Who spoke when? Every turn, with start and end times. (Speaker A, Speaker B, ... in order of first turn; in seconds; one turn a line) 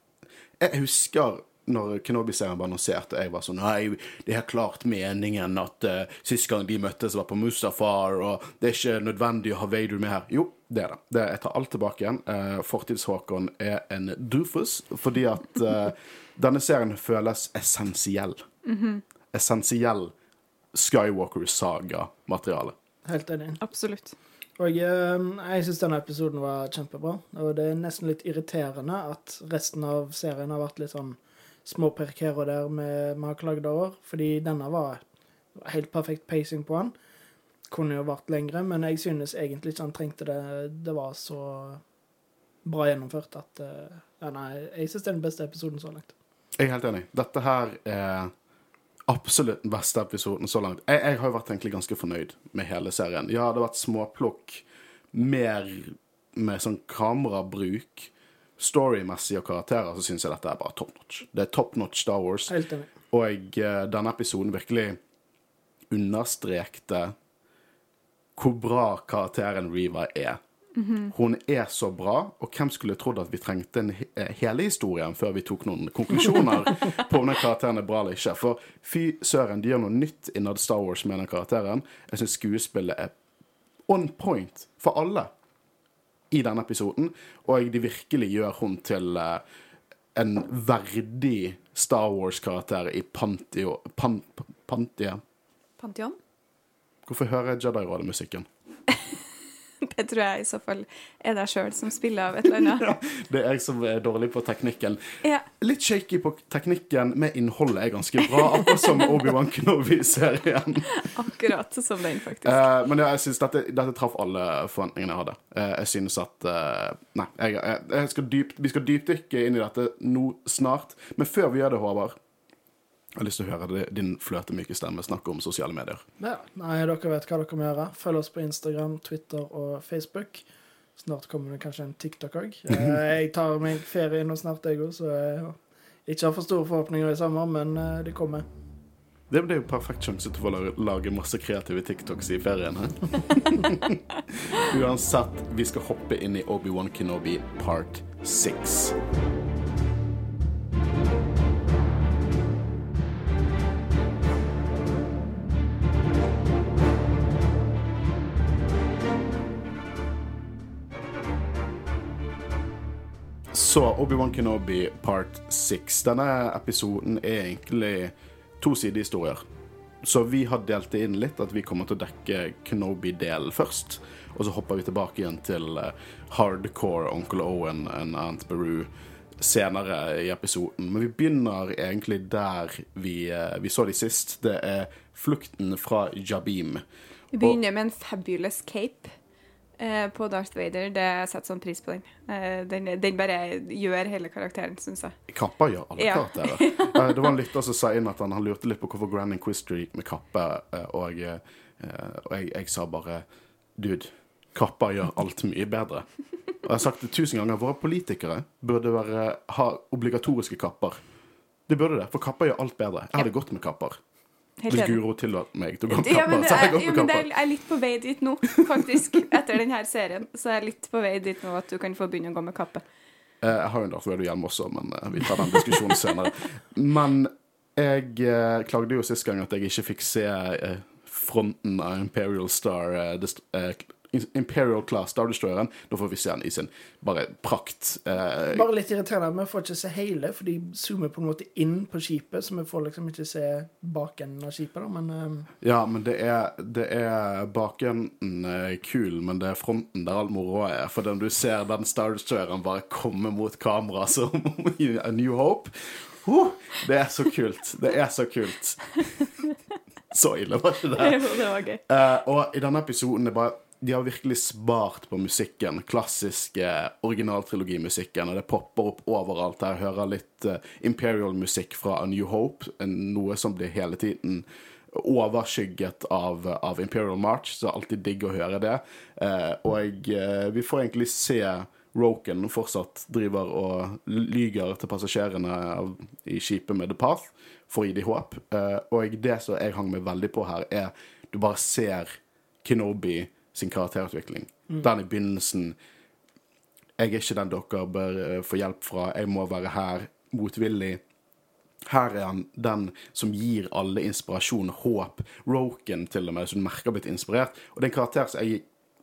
Speaker A: 0.6-18.5
Speaker B: 18.6-19.0
Speaker A: 19.3-20.1
Speaker A: 20.7-22.8
Speaker C: 23.1-23.6
Speaker B: 23.6-24.2
Speaker C: 24.6-35.0
Speaker C: 35.5-36.9
Speaker C: 37.7-41.8
Speaker C: 42.6-46.1
Speaker A: 46.6-48.3
Speaker A: 49.1-62.5
Speaker C: 62.5-62.9
Speaker A: 63.1-65.0
Speaker A: 65.9-67.1
Speaker A: 68.4-70.4
Speaker B: 70.8-71.1
Speaker A: 71.1-83.1
Speaker A: 83.9-85.3
Speaker A: 86.3-89.4
Speaker A: 90.2-95.2
Speaker B: 95.8-96.2
Speaker A: 97.1-98.5
Speaker B: 99.8-102.9
Speaker A: 102.6-105.0
Speaker A: 105.6-110.9
Speaker B: 108.7-109.0
Speaker B: 110.9-112.7
Speaker A: 112.4-122.2
Speaker A: 123.2-126.0
Speaker C: 126.2-130.4
Speaker C: 131.0-138.4
Speaker A: 139.3-149.0
Speaker A: 163.5-169.4
Speaker A: 170.0-186.8
Speaker B: 187.3-189.1
Speaker B: 189.8-195.2
Speaker A: 195.3-203.2
Speaker B: 196.0-197.3
Speaker A: 203.8-206.1
Speaker A: 206.6-211.0
Speaker A: 211.7-214.0
Speaker B: 214.6-215.0
Speaker A: 214.7-217.3
Speaker B: 215.9-222.8
Speaker A: 218.6-219.0
Speaker A: 223.4-238.7
Speaker C: 238.5-245.5
Speaker A: 245.6-259.3
Speaker A: 260.1-295.8
Speaker B: 261.0-261.8
Speaker A: 297.0-301.0
Speaker A: 301.9-308.6